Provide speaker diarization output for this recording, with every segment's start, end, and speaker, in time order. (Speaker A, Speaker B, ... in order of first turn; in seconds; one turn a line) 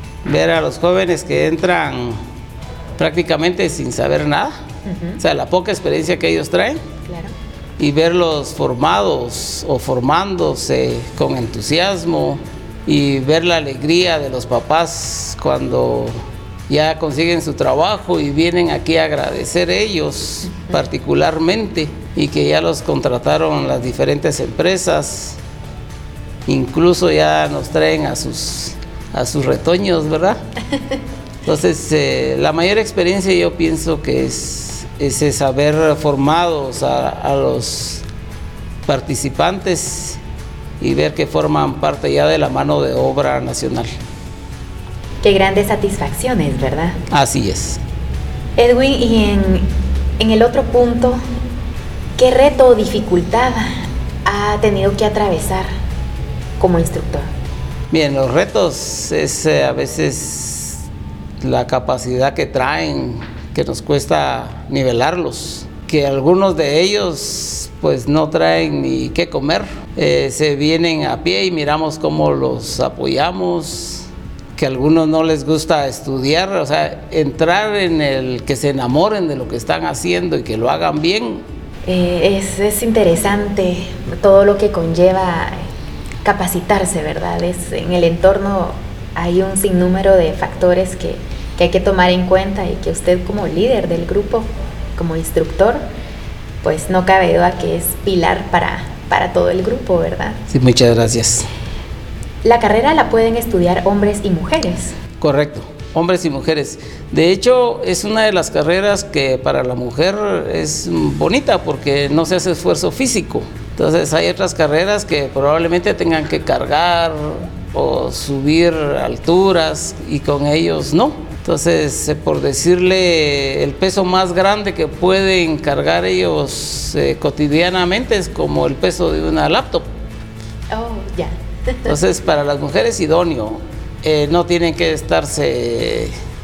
Speaker A: 0.2-2.2
Speaker A: 3.0-4.5
Speaker B: 4.8-5.2
Speaker A: 5.2-6.8
Speaker B: 7.0-7.3
Speaker A: 7.8-16.1
Speaker A: 16.7-25.4
Speaker A: 26.4-30.4
Speaker A: 31.4-38.0
Speaker A: 38.9-40.2
Speaker A: 40.8-43.9
Speaker B: 45.2-47.0
Speaker A: 47.1-47.8
Speaker B: 48.6-49.7
Speaker B: 50.2-51.2
Speaker B: 52.2-55.7
Speaker B: 56.6-57.3
Speaker A: 57.9-60.9
Speaker A: 61.4-81.4
Speaker B: 81.8-85.7
Speaker B: 86.2-95.8
Speaker B: 96.6-100.4
Speaker A: 100.5-101.5
Speaker B: 102.4-105.0
Speaker A: 105.2-129.9
Speaker B: 130.7-131.9
Speaker A: 131.8-136.1